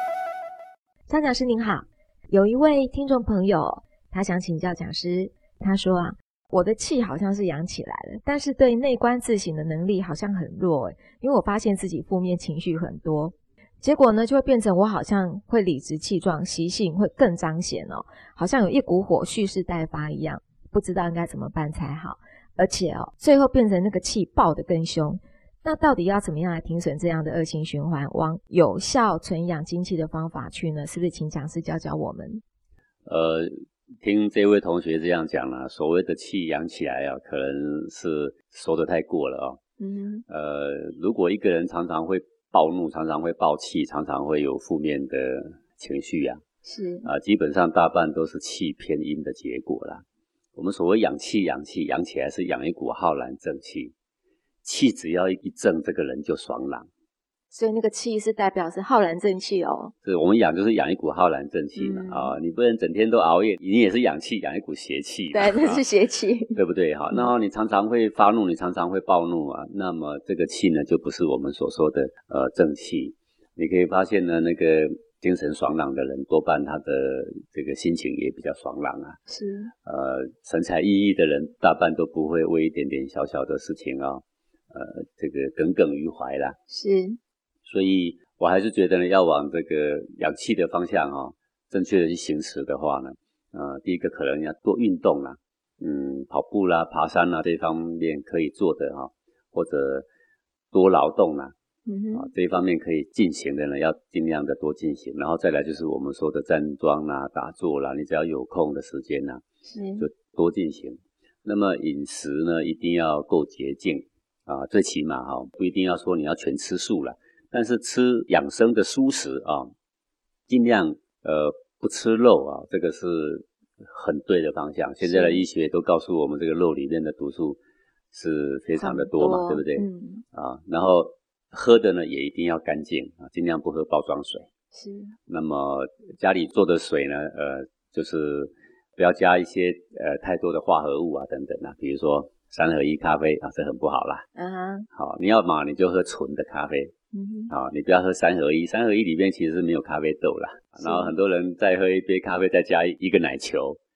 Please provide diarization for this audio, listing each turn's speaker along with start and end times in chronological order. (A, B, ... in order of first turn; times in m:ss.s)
0:01.1-0:32.4 A
0:33.0-0:33.5 B
0:34.0-0:39.6 B
0:39.8-0:40.2 A
0:40.3-0:46.4 B
0:46.6-0:47.1 A
0:47.0-0:50.0 B
0:50.6-0:53.9 B
0:54.6-0:56.9 B
0:57.5-0:59.9 A
1:00.0-1:05.8 B
1:01.8-1:02.3 A
1:05.3-1:06.6 A
1:06.5-1:19.2 B
1:19.3-1:19.7 A
1:19.8-1:26.6 B
1:26.7-1:27.2 A
1:27.6-1:40.1 B
1:40.7-1:41.5 B
1:41.8-1:42.3 A
1:42.1-1:49.4 B
1:49.7-1:50.0 A
1:50.0-1:59.7 B
2:00.5-2:07.6 B
2:05.0-2:05.4 A
2:08.1-2:14.5 B
2:08.8-2:10.2 A
2:14.7-2:15.1 A
2:15.3-2:24.2 B
2:24.4-2:24.9 A
2:24.9-2:26.9 B
2:27.1-2:27.5 A
2:27.5-2:33.8 B
2:30.8-2:31.1 A